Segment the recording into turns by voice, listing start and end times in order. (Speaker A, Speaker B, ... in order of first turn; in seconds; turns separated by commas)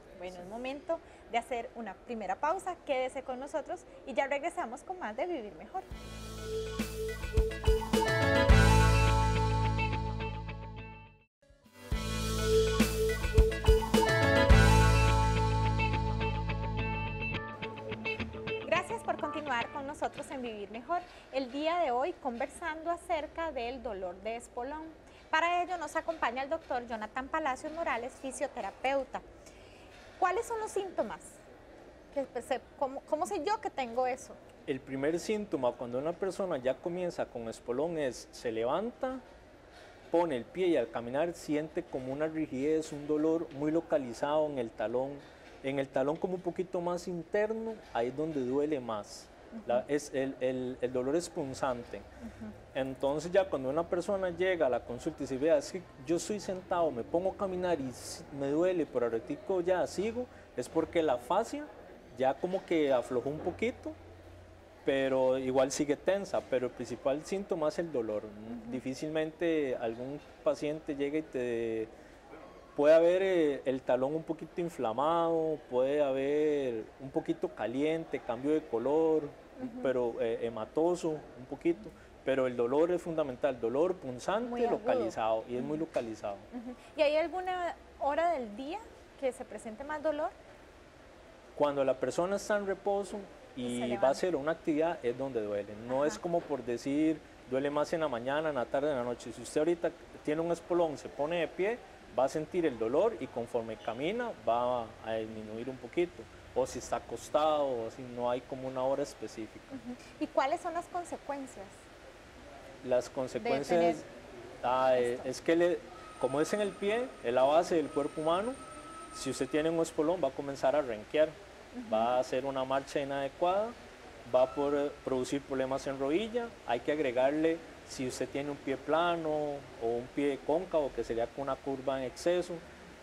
Speaker A: 0.2-5.9, Speaker A: 18.6-29.2, Speaker A: 30.2-31.4, Speaker A: 32.1-34.4, Speaker B: 34.6-39.2, Speaker B: 40.1-52.1, Speaker A: 49.5-49.8, Speaker B: 52.7-64.0, Speaker B: 64.8-71.9, Speaker A: 68.5-68.8, Speaker B: 72.8-86.5, Speaker A: 79.6-79.9, Speaker A: 84.4-85.8, Speaker A: 86.5-90.3, Speaker B: 91.5-109.8, Speaker A: 93.6-94.2, Speaker A: 95.9-96.2, Speaker A: 109.7-111.8, Speaker B: 112.8-114.0, Speaker A: 113.4-114.0, Speaker B: 114.6-118.6, Speaker A: 114.9-115.3, Speaker B: 119.1-121.3, Speaker A: 121.8-122.1, Speaker B: 121.9-132.6